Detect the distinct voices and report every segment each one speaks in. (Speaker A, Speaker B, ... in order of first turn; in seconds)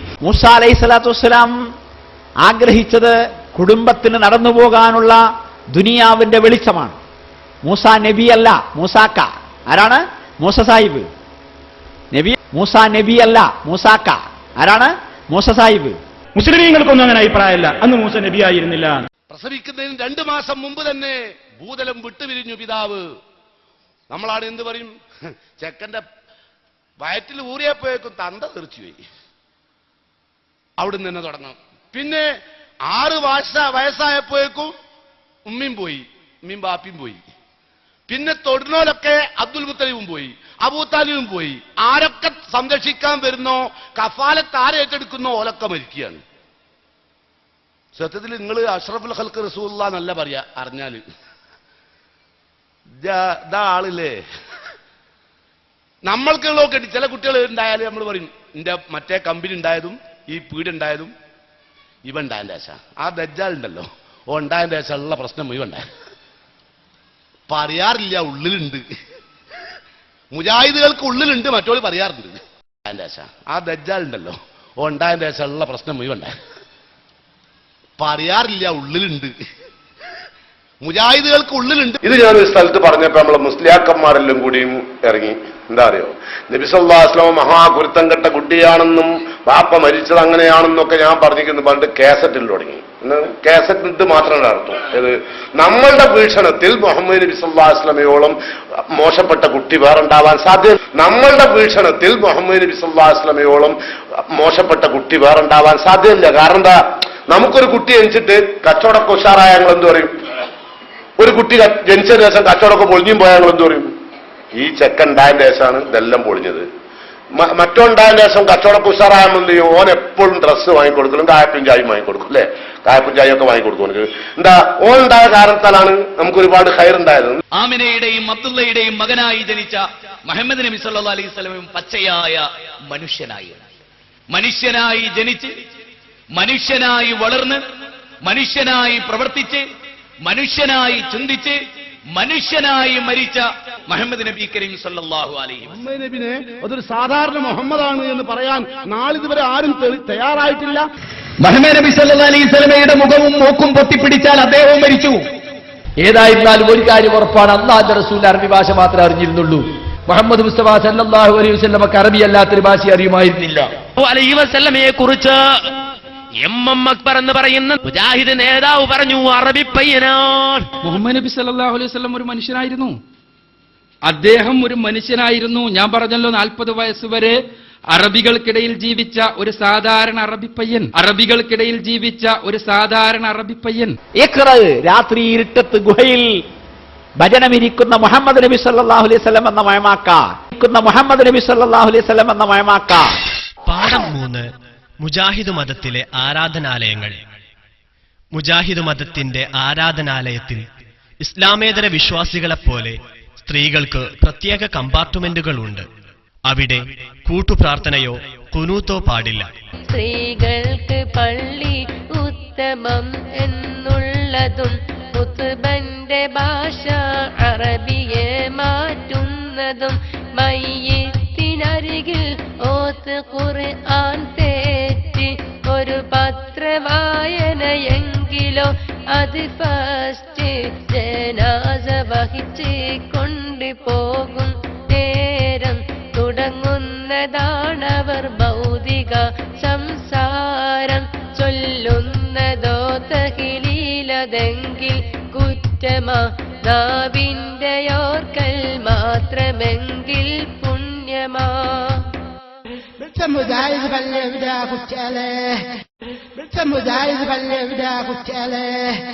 Speaker A: 0.2-1.6, 2.4-7.0, 7.6-11.1, 12.1-16.0, 184.2-186.4, 187.2-193.1
Speaker B: 16.4-19.1
Speaker C: 19.3-23.0, 24.1-24.9, 25.6-26.0, 27.0-29.0, 30.8-32.2, 32.9-34.7, 35.5-37.2, 38.1-46.2, 48.0-51.0, 53.0-54.1, 56.1-61.1, 62.0-65.8, 67.5-68.8, 70.3-76.3, 78.0-79.3, 80.8-82.0, 145.7-150.8
Speaker D: 82.0-98.3, 98.9-103.8, 104.3-110.1, 111.2-113.9, 114.5-116.7, 117.4-127.4
Speaker E: 127.5-133.7, 134.3-135.5, 136.3-137.6, 138.2-139.6, 140.2-141.6, 142.2-145.8
Speaker F: 151.4-155.2
Speaker G: 156.0-163.7
Speaker H: 164.0-165.3, 166.4-170.6
Speaker I: 170.8-172.9, 174.1-177.4, 177.9-183.9
Speaker J: 193.7-194.4, 195.0-197.2, 198.3-200.6, 201.2-205.8, 206.5-209.5
Speaker K: 209.9-252.1
Speaker L: 253.0-255.6, 256.4-259.0